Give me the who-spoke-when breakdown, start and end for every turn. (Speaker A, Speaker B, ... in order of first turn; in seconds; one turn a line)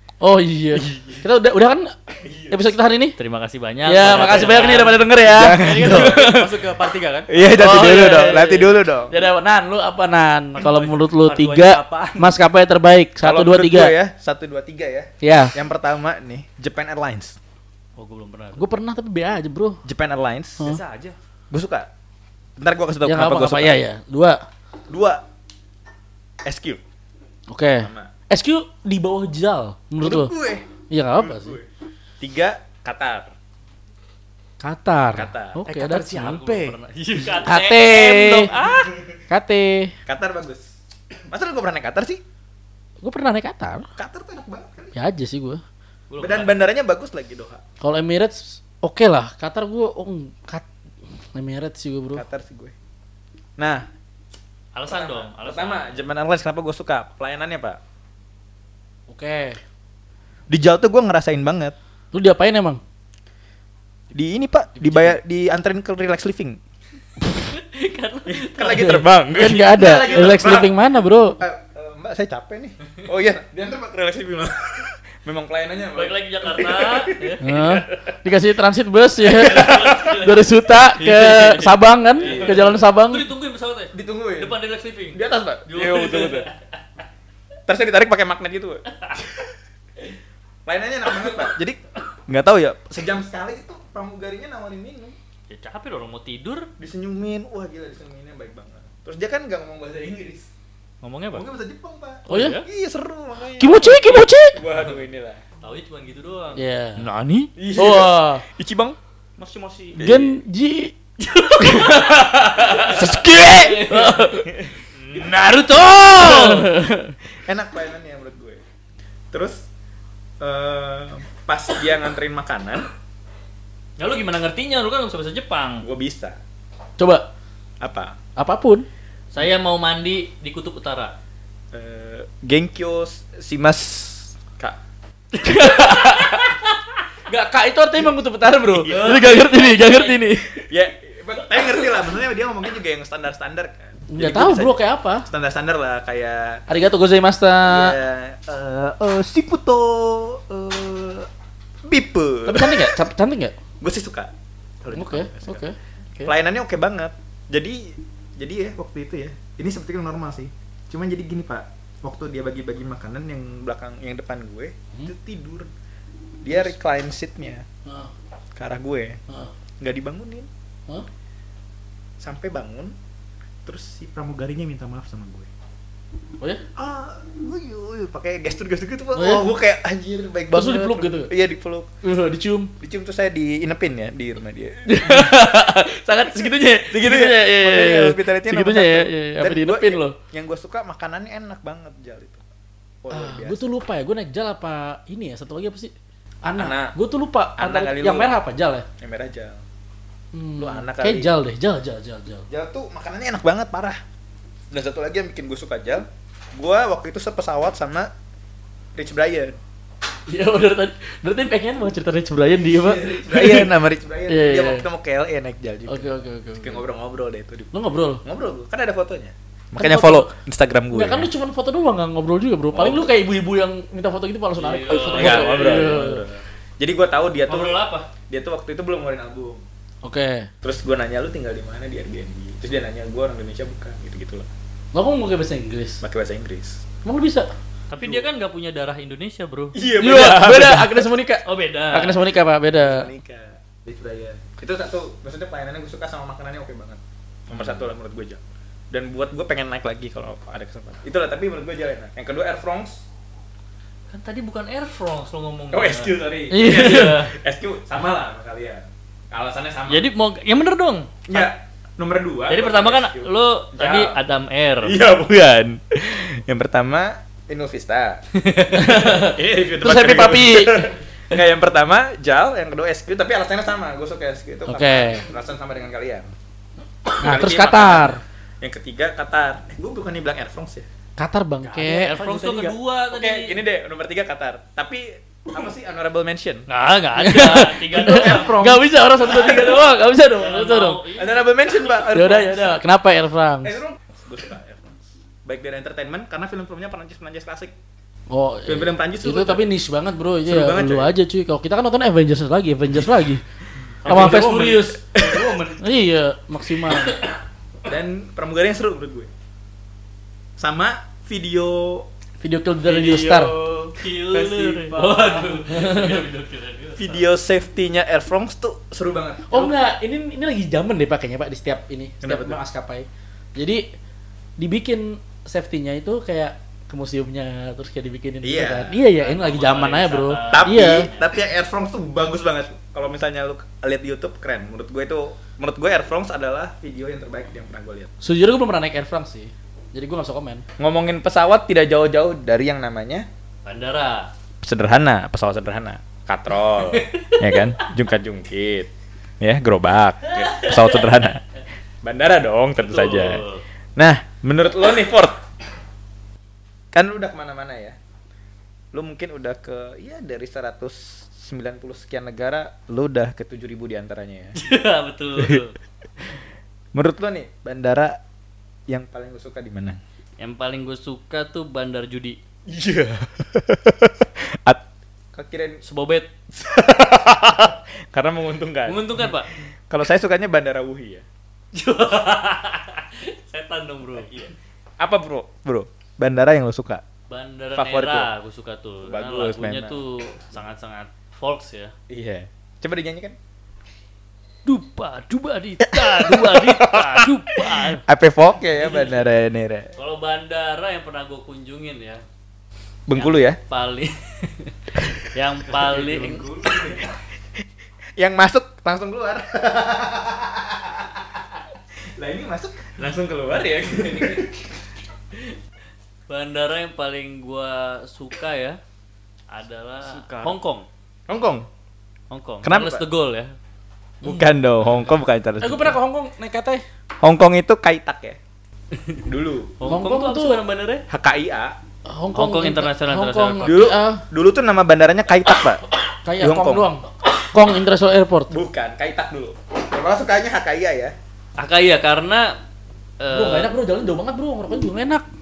Speaker A: 0.2-1.9
Speaker B: 0.8-1.2
Speaker B: 2.2-2.7
Speaker A: 2.5-3.1
Speaker C: 3.2-5.0
Speaker A: 3.8-6.5
Speaker D: 4.2-4.9
Speaker B: 5.2-6.4
Speaker D: 5.6-7.4
Speaker C: 5.7-6.1
Speaker B: 7.3-9.1
Speaker A: 7.5-14.0
Speaker D: 10.6-12.3
Speaker B: 13.2-17.4
Speaker A: 15.2-15.5
Speaker C: 17.9-18.6
Speaker A: 18.6-19.8
Speaker B: 19.8-20.7
Speaker D: 20.6-21.2
Speaker B: 21.5-21.9
Speaker B: 22.6-23.8
Speaker A: 23.0-24.4
Speaker B: 24.9-25.2
Speaker B: 26.4-26.8
Speaker A: 27.5-30.3
Speaker B: 27.8-28.1
Speaker B: 30.0-31.7
Speaker A: 30.9-31.6
Speaker B: 32.2-33.3
Speaker A: 34.6-36.4
Speaker B: 35.1-35.6
Speaker D: 35.6-36.8
Speaker C: 36.1-38.9
Speaker A: 37.4-38.5
Speaker B: 37.8-39.1
Speaker A: 39.3-39.9
Speaker B: 40.0-40.6
Speaker B: 41.3-42.2
Speaker A: 43.0-43.9
Speaker B: 44.0-44.9
Speaker A: 44.9-45.6
Speaker C: 46.1-46.6
Speaker B: 46.2-47.6
Speaker A: 47.8-50.6
Speaker A: 51.3-52.2
Speaker B: 52.1-52.7
Speaker B: 53.6-53.9
Speaker C: 54.7-56.1
Speaker B: 54.9-57.8
Speaker A: 59.1-59.6
Speaker B: 60.5-61.7
Speaker A: 62.1-62.8
Speaker B: 64.1-66.6
Speaker C: 67.5-69.0
Speaker B: 68.2-70.7
Speaker A: 68.7-71.4
Speaker B: 71.4-77.4
Speaker C: 75.9-77.8
Speaker A: 77.4-83.3
Speaker C: 79.2-86.6
Speaker B: 82.2-82.7
Speaker B: 83.9-84.6
Speaker B: 85.1-86.5
Speaker B: 87.7-89.5
Speaker B: 90.7-95.2
Speaker C: 95.5-96.7
Speaker B: 96.8-100.5
Speaker C: 101.0-101.5
Speaker B: 101.3-105.4
Speaker C: 102.3-102.7
Speaker A: 102.3-102.6
Speaker A: 103.6-104.6
Speaker C: 103.8-104.2
Speaker C: 105.6-107.5
Speaker A: 106.5-107.0
Speaker B: 107.6-109.0
Speaker A: 107.8-108.4
Speaker B: 109.9-110.4
Speaker A: 110.0-111.0
Speaker C: 111.2-116.7
Speaker A: 111.5-113.0
Speaker B: 112.8-113.9
Speaker A: 113.8-114.5
Speaker B: 114.5-116.4
Speaker A: 116.2-117.2
Speaker B: 117.4-118.6
Speaker B: 119.3-119.7
Speaker B: 120.4-122.9
Speaker C: 124.0-125.8
Speaker B: 125.8-126.4
Speaker A: 127.0-127.2
Speaker B: 127.8-128.2
Speaker A: 128.4-128.9
Speaker C: 129.3-131.1
Speaker B: 131.7-134.8
Speaker A: 135.3-136.6
Speaker C: 135.9-136.4
Speaker A: 137.3-140.7
Speaker B: 138.7-139.4
Speaker C: 138.8-140.2
Speaker B: 140.7-146.6
Speaker A: 144.1-145.3
Speaker A: 146.7-148.0
Speaker B: 147.6-151.3
Speaker B: 151.8-153.0
Speaker A: 152.4-153.5
Speaker B: 153.8-154.3
Speaker B: 154.8-155.7
Speaker A: 154.9-156.3
Speaker B: 156.2-165.7
Speaker B: 166.4-167.7
Speaker A: 167.8-168.1
Speaker B: 168.5-169.2
Speaker B: 169.8-170.5
Speaker B: 172.2-172.9
Speaker B: 173.6-175.5
Speaker B: 176.8-181.9
Speaker A: 179.1-179.5
Speaker A: 180.5-181.3
Speaker A: 182.0-182.7
Speaker B: 182.8-185.3
Speaker A: 184.8-190.2
Speaker B: 186.9-192.4
Speaker B: 193.0-193.6
Speaker A: 193.1-195.9
Speaker A: 196.4-198.9
Speaker B: 196.6-196.9
Speaker B: 197.6-198.3
Speaker B: 199.0-199.6
Speaker A: 200.3-202.5
Speaker B: 200.6-201.3
Speaker B: 202.5-204.0
Speaker B: 204.7-208.1
Speaker B: 208.9-209.6
Speaker A: 210.3-213.8
Speaker B: 212.6-217.7
Speaker A: 214.3-214.8
Speaker A: 215.9-216.8
Speaker A: 217.7-218.2
Speaker B: 218.2-221.3
Speaker A: 219.8-220.3
Speaker A: 220.9-226.2
Speaker B: 222.7-223.1
Speaker C: 224.6-226.1
Speaker B: 224.9-229.6
Speaker C: 227.5-228.1
Speaker A: 230.0-230.5
Speaker B: 230.6-234.5
Speaker A: 234.9-236.0
Speaker B: 236.0-236.8
Speaker A: 237.0-237.5
Speaker C: 237.9-239.8
Speaker B: 239.7-241.1
Speaker A: 240.0-243.1
Speaker C: 241.4-242.2
Speaker B: 242.7-253.0
Speaker C: 254.1-257.2
Speaker B: 255.7-260.1
Speaker A: 256.5-257.3
Speaker C: 259.9-261.5
Speaker B: 261.3-264.2
Speaker C: 262.5-265.0
Speaker B: 264.8-276.3
Speaker A: 268.7-270.8
Speaker A: 274.7-275.2
Speaker B: 277.2-280.9
Speaker A: 277.2-278.2
Speaker A: 281.2-282.2
Speaker C: 281.7-283.6
Speaker B: 282.1-286.7
Speaker C: 286.7-288.6
Speaker A: 287.2-291.0
Speaker B: 287.9-289.9
Speaker C: 290.3-291.5
Speaker B: 291.1-292.8
Speaker A: 292.1-293.8
Speaker B: 293.6-297.7
Speaker A: 298.3-303.4
Speaker B: 298.6-299.7
Speaker B: 300.4-301.1
Speaker D: 304.0-305.8
Speaker A: 304.1-305.1
Speaker A: 305.8-307.2
Speaker B: 307.9-309.3
Speaker B: 310.6-312.1
Speaker A: 312.4-313.6
Speaker D: 312.8-315.6
Speaker C: 313.9-317.2
Speaker A: 315.7-316.1
Speaker B: 317.0-319.7
Speaker A: 319.5-323.9
Speaker B: 322.2-322.6
Speaker A: 324.6-331.1
Speaker B: 328.4-329.0
Speaker C: 329.2-331.3
Speaker B: 330.5-338.1
Speaker A: 338.2-340.6
Speaker B: 340.8-343.3
Speaker C: 343.6-344.3
Speaker B: 344.6-351.4
Speaker C: 346.8-347.6
Speaker C: 350.3-351.1
Speaker B: 352.0-353.4
Speaker C: 352.8-353.6
Speaker B: 354.0-355.4
Speaker B: 356.9-357.9
Speaker B: 358.9-364.6
Speaker C: 364.6-365.8
Speaker B: 366.9-368.2
Speaker B: 368.9-370.0
Speaker C: 370.4-372.4
Speaker B: 372.7-375.8
Speaker C: 375.8-376.3
Speaker B: 376.5-381.2
Speaker C: 378.9-379.5
Speaker C: 381.7-384.3
Speaker B: 384.1-387.0
Speaker C: 387.3-391.9
Speaker B: 387.7-388.3
Speaker B: 389.0-390.0
Speaker B: 392.1-393.4
Speaker C: 394.6-398.0
Speaker B: 395.8-399.9
Speaker C: 398.8-399.2
Speaker C: 400.0-402.2
Speaker B: 403.1-403.6
Speaker C: 403.1-406.5
Speaker D: 405.8-406.8
Speaker B: 406.2-407.1
Speaker B: 408.2-411.6
Speaker B: 412.1-414.7
Speaker C: 416.3-418.8
Speaker C: 419.5-420.9
Speaker D: 420.0-420.6
Speaker B: 421.3-421.7
Speaker C: 422.3-423.5
Speaker B: 422.6-423.0
Speaker B: 424.2-426.0
Speaker A: 425.6-426.8
Speaker B: 427.2-428.4
Speaker B: 429.2-429.8
Speaker C: 429.8-431.0
Speaker A: 429.9-430.6
Speaker B: 431.1-431.7
Speaker A: 432.1-434.2
Speaker C: 432.3-433.9
Speaker B: 433.6-435.8
Speaker A: 436.2-438.5
Speaker B: 436.4-436.9
Speaker B: 438.5-441.1
Speaker C: 441.6-442.6
Speaker C: 443.2-443.7
Speaker A: 443.3-445.2